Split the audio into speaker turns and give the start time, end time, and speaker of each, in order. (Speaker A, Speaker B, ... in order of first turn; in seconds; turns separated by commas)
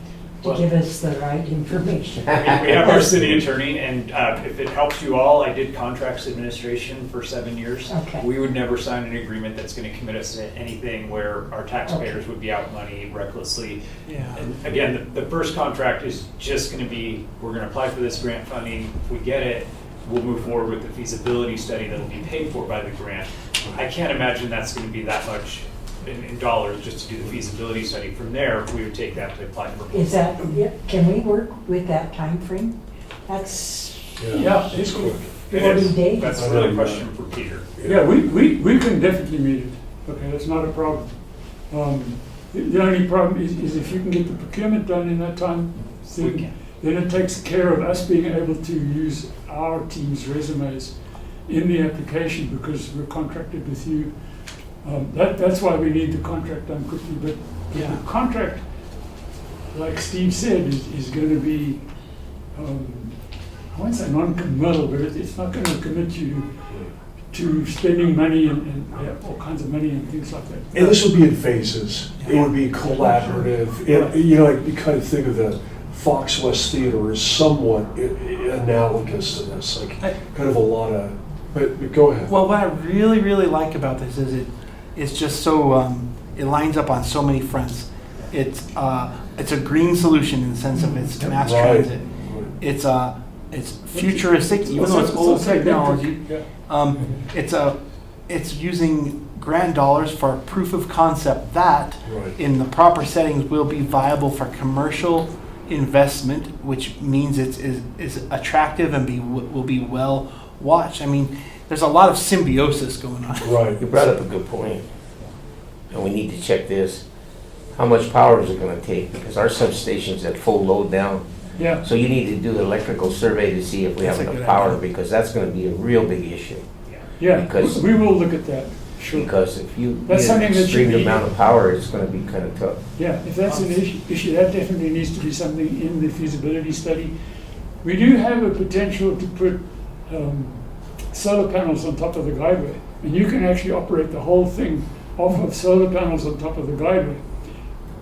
Speaker A: 0.4-2.3, Speaker B: 2.3-3.5, Speaker C: 2.3-13.8, Speaker A: 7.9-8.3, Speaker A: 11.9-12.2, Speaker D: 14.1-14.4, Speaker C: 14.3-30.2, Speaker A: 29.9-32.8, Speaker A: 33.3-34.8, Speaker E: 34.2-35.4, Speaker F: 34.3-35.9, Speaker A: 35.5-36.4, Speaker C: 35.5-37.7, Speaker E: 36.3-37.1, Speaker E: 37.7-38.1, Speaker F: 37.9-41.1, Speaker F: 41.7-54.1, Speaker C: 46.2-46.5, Speaker F: 54.8-58.6, Speaker D: 57.7-58.0, Speaker F: 59.7-61.8, Speaker F: 62.5-66.5, Speaker F: 67.3-71.0, Speaker E: 70.7-82.3, Speaker F: 72.3-74.2, Speaker D: 82.3-97.8, Speaker E: 91.3-92.5, Speaker F: 93.9-96.5, Speaker D: 98.3-113.7, Speaker E: 102.0-102.4, Speaker E: 113.4-113.8, Speaker B: 113.7-114.8, Speaker B: 115.9-117.0, Speaker B: 117.8-121.2, Speaker F: 121.6-121.8, Speaker B: 121.8-126.6, Speaker D: 124.0-124.8, Speaker F: 127.2-129.3, Speaker B: 127.3-127.8, Speaker B: 129.1-132.8, Speaker F: 130.0-131.2, Speaker F: 133.0-137.1, Speaker F: 137.8-147.2